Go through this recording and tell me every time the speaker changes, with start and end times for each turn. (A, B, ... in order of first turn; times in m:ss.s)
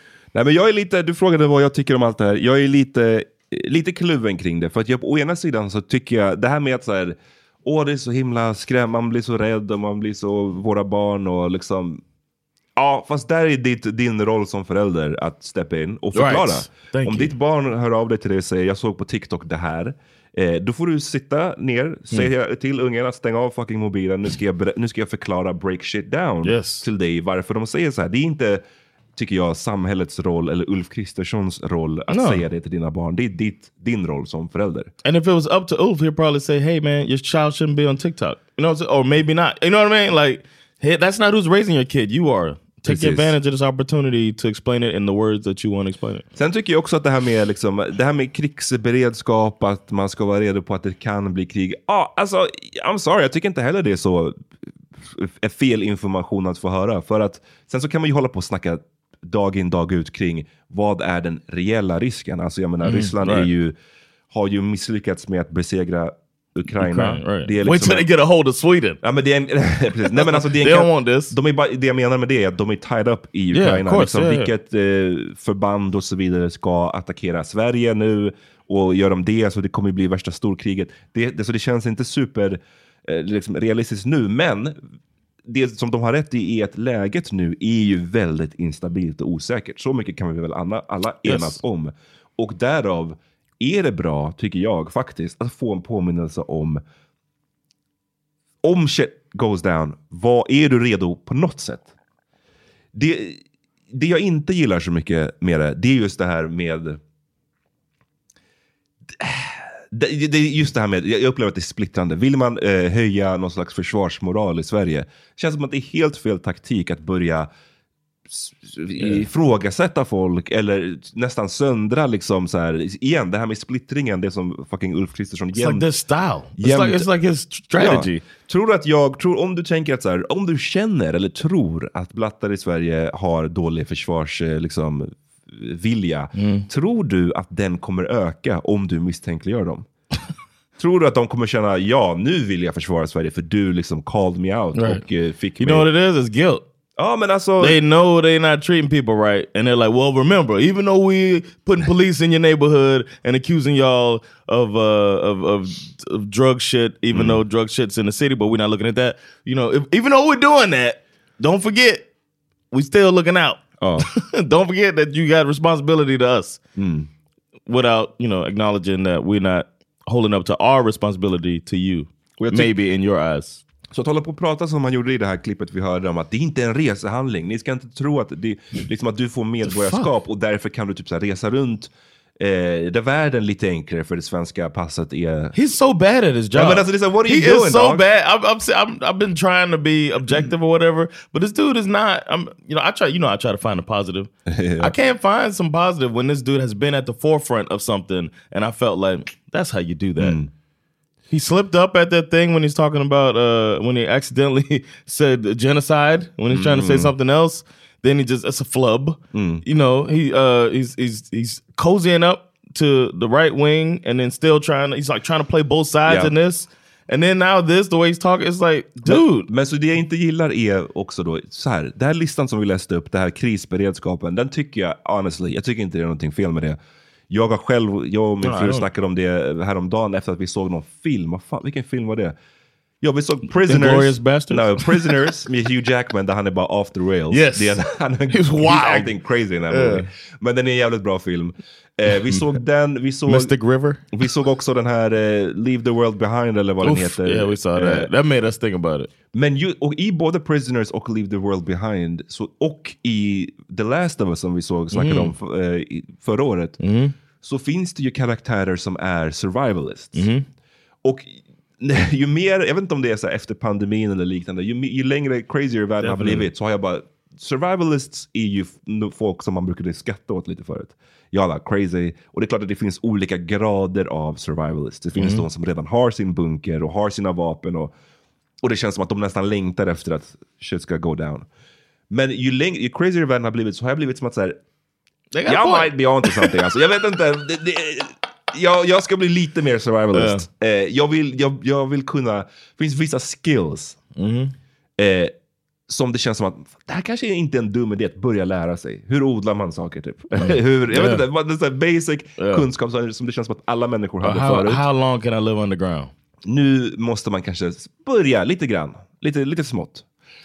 0:00.3-0:12.0 A
0:12.8-0:28.6 A
0:16.1-0:17.3 B
0:26.4-0:26.8 B
0:29.2-0:34.9 A
0:32.1-0:32.4 B
0:35.0-0:46.2 B
0:42.8-0:43.3 A
0:46.3-0:54.4 A
0:55.0-1:03.7 A
1:02.8-1:03.5 B
1:04.3-1:08.0 A
1:06.8-1:09.0 B
1:09.0-1:24.8 A
1:10.1-1:11.3 B
1:13.5-1:14.5 B
1:25.5-1:36.8 A
1:31.2-1:31.6 B
1:38.6-1:41.9 A
1:42.9-1:47.0 A
1:49.2-1:57.5 A
1:58.3-2:05.8 A
1:59.0-1:59.2 B
2:05.5-2:08.2 B
2:06.6-2:07.1 A
2:07.8-2:19.9 A
2:16.4-2:16.6 B
2:20.8-2:25.9 A
2:24.8-2:25.0 B
2:25.6-2:26.6 B
2:27.0-2:27.8 A
2:27.6-2:42.1 B
2:37.1-2:37.4 A
2:42.7-2:46.6 B
2:43.8-2:44.1 A
2:46.8-2:47.1 A
2:47.7-2:53.6 B
2:52.4-2:52.7 A
2:53.9-3:05.5 A
2:59.6-3:00.1 B
3:05.5-3:20.4 B
3:06.5-3:08.0 A
3:14.5-3:14.9 A
3:20.2-3:20.5 A
3:21.3-3:39.5 B
3:26.5-3:27.1 A
3:29.3-3:29.6 A
3:36.0-3:36.3 A
3:39.0-3:46.8 A
3:47.3-3:52.3 A
3:48.4-3:48.9 B
3:53.0-4:03.5 A
3:53.7-3:55.2 B
3:57.3-3:59.1 B
3:59.7-4:00.1 B
4:03.3-4:04.0 B
4:04.1-4:08.1 A
4:06.8-4:09.1 B
4:09.3-4:16.8 A
4:14.9-4:15.3 B
4:16.8-4:17.1 B
4:17.4-4:20.3 A
4:20.1-4:20.4 B
4:21.0-4:37.9 A
4:26.0-4:26.5 B
4:35.2-4:35.4 B
4:38.6-4:41.5 A
4:42.1-4:44.6 A
4:45.3-4:46.5 B
4:45.4-4:54.0 A
4:50.1-4:50.4 B
4:54.2-4:54.5 B
4:55.0-4:55.3 A
4:55.9-5:04.8 A
5:00.4-5:01.2 B
5:02.4-5:02.6 B
5:04.2-5:06.1 B
5:06.4-5:10.0 A